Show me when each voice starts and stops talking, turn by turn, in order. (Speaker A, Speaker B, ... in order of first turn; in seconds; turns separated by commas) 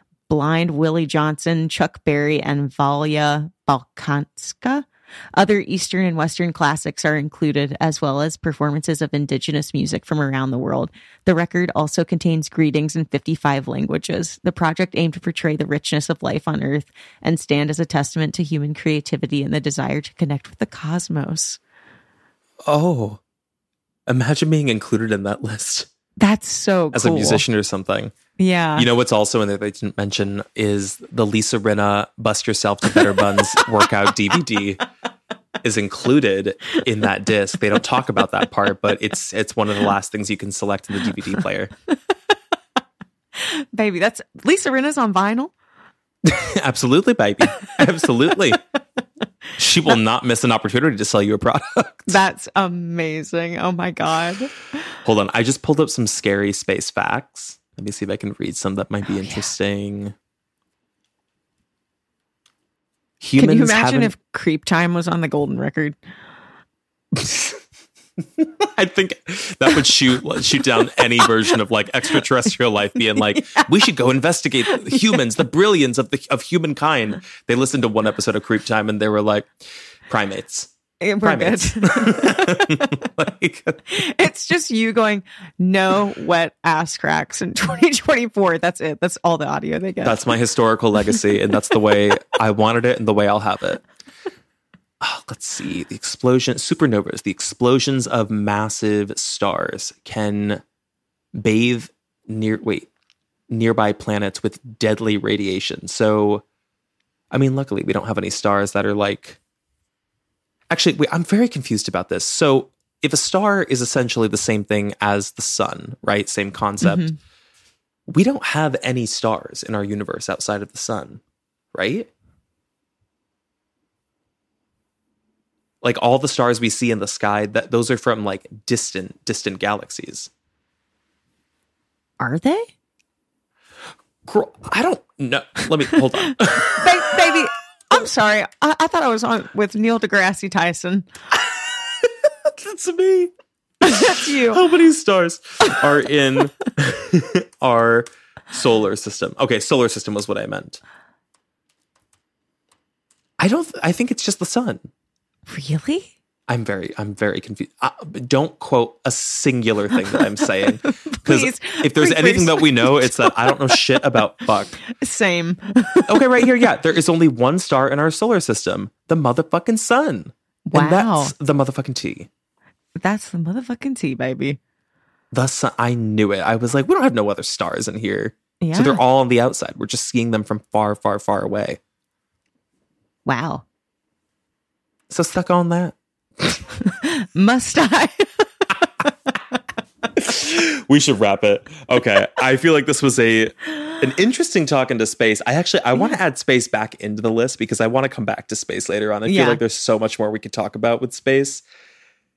Speaker A: 0.3-21.6, Speaker B: 22.7-23.2, Speaker B: 24.1-25.9, Speaker A: 26.2-27.4, Speaker B: 26.9-28.1, Speaker A: 28.4-28.9, Speaker B: 28.8-34.9, Speaker A: 33.0-33.6, Speaker B: 35.6-41.7, Speaker A: 43.4-45.5, Speaker B: 46.2-48.6, Speaker B: 49.6-52.2, Speaker A: 52.1-54.5, Speaker B: 55.0-60.1, Speaker A: 59.1-59.5, Speaker B: 63.2-64.1, Speaker A: 63.4-66.0, Speaker B: 67.1-67.6, Speaker B: 68.4-79.5, Speaker A: 71.0-71.3, Speaker A: 73.0-73.7, Speaker A: 74.7-75.2, Speaker B: 80.1-80.7, Speaker A: 81.0-82.9, Speaker B: 81.2-83.9, Speaker A: 83.9-90.3, Speaker B: 90.0-93.8, Speaker B: 95.0-100.6, Speaker B: 101.3-102.9, Speaker B: 103.5-106.4, Speaker B: 107.3-109.4, Speaker B: 110.7-117.1, Speaker A: 116.8-117.2, Speaker B: 118.1-121.2, Speaker B: 121.7-122.1, Speaker B: 125.8-130.3, Speaker A: 132.2-132.7, Speaker B: 134.2-137.4, Speaker A: 136.6-141.1, Speaker B: 141.5-143.3, Speaker A: 143.8-144.6, Speaker B: 143.8-150.8, Speaker B: 153.4-154.9, Speaker A: 155.5-156.1, Speaker B: 156.5-164.8, Speaker A: 159.9-163.8, Speaker A: 164.9-166.7, Speaker B: 166.1-172.3, Speaker A: 170.7-171.3, Speaker A: 173.0-174.6, Speaker B: 175.3-181.8, Speaker A: 178.6-179.0, Speaker A: 183.3-183.6, Speaker B: 185.1-186.6, Speaker A: 186.8-188.5, Speaker B: 190.1-201.6, Speaker A: 199.2-199.6